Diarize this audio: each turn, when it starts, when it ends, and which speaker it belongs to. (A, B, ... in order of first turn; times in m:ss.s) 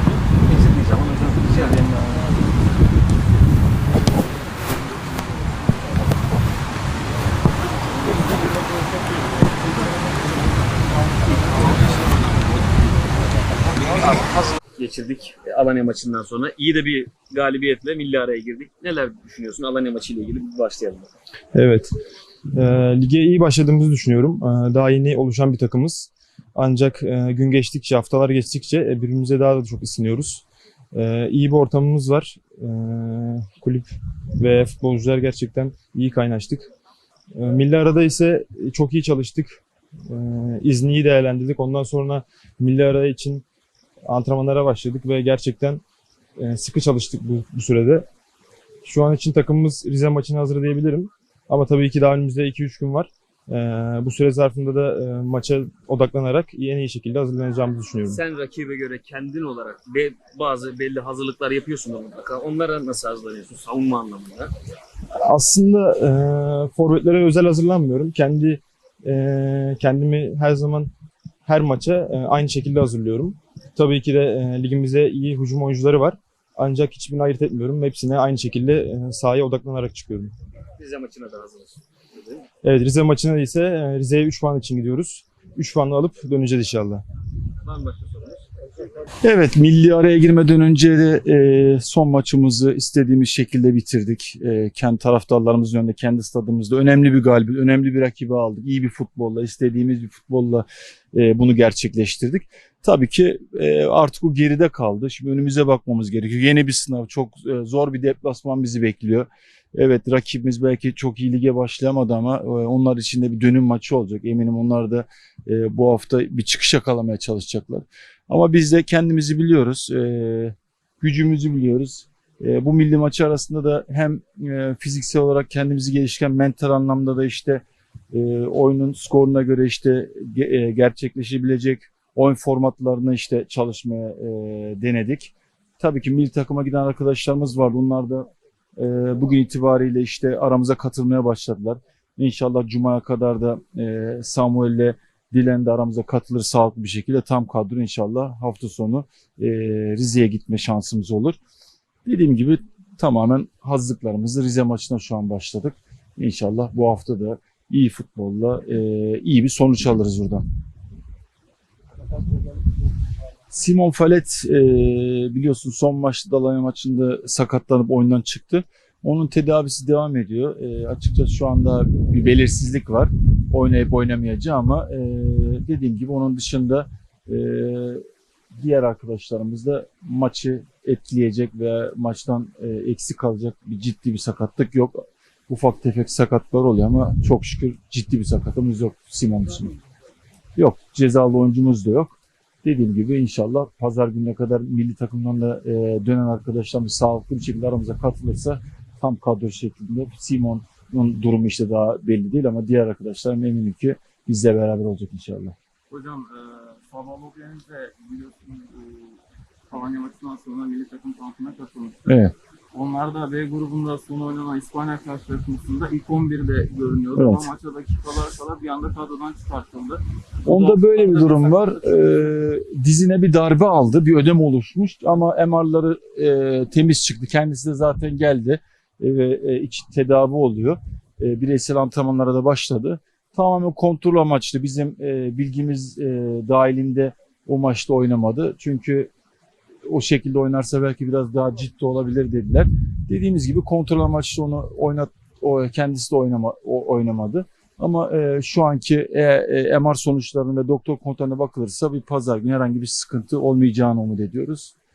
0:00.4-0:02.0 A
0:11.5-0:12.0 A
0:13.9-0:21.1 A
0:21.5-0:21.9 B
0:22.5-0:36.7 B
0:37.3-0:43.4 B
0:44.0-0:45.8 B
0:46.4-0:48.1 B
0:48.8-0:58.2 B
0:58.1-1:04.5 A
1:05.1-1:10.9 B
1:11.4-1:20.3 B
1:20.8-1:22.5 A
1:22.6-1:27.0 B
1:27.6-1:28.4 A
1:29.2-2:31.4 C
2:32.0-2:40.4 C
2:43.5-2:58.0 C
2:58.5-3:09.7 C
3:10.6-3:25.5 C
3:25.9-3:29.2 D
3:29.7-3:32.2 D
3:32.1-3:32.3 C
3:32.7-3:41.9 D
3:37.1-3:37.5 C
3:40.4-3:59.1 C
3:59.8-4:14.7 C